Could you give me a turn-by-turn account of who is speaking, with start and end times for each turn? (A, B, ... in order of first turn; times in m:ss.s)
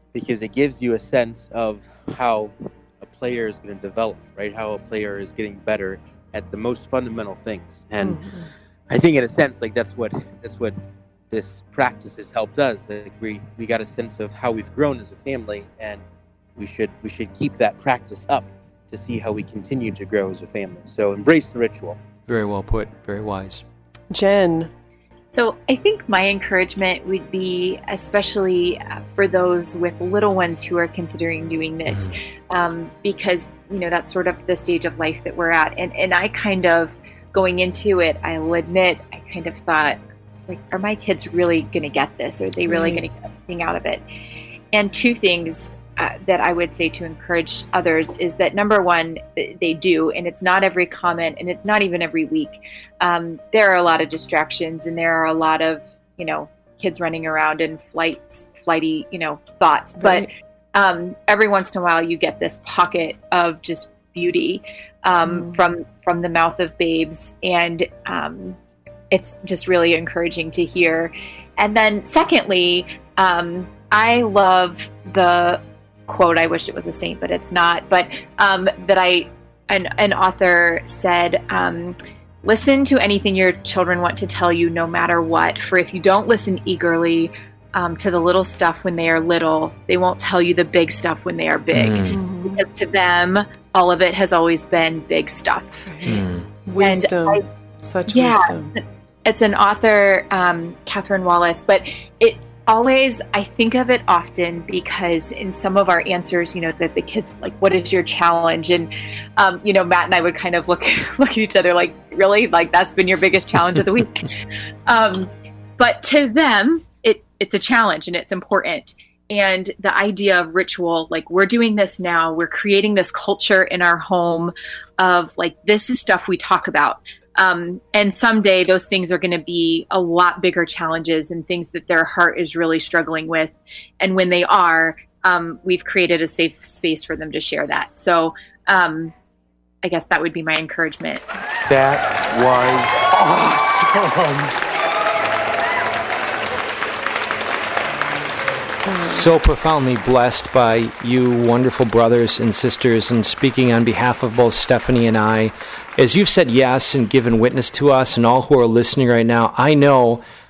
0:00.1-0:10.8 A
0:08.0-0:08.5 B
0:11.3-0:16.0 A
0:16.6-0:22.0 A
0:22.3-0:23.6 C
0:24.1-0:24.7 B
0:25.3-0:44.0 D
0:31.9-0:32.1 C
0:42.7-0:43.0 B
0:44.7-1:08.6 D
1:00.0-1:00.3 B
1:05.2-1:05.6 B
1:09.1-1:35.8 D
1:31.7-1:32.2 C
1:32.1-1:32.6 B
1:35.9-1:38.7 B
1:36.0-1:36.5 C
1:36.8-1:37.4 D
1:38.1-1:54.3 D
1:54.8-2:19.1 D
2:19.8-2:21.2 D
2:21.6-2:24.6 E
2:28.8-2:29.3 B
2:29.0-2:40.2 C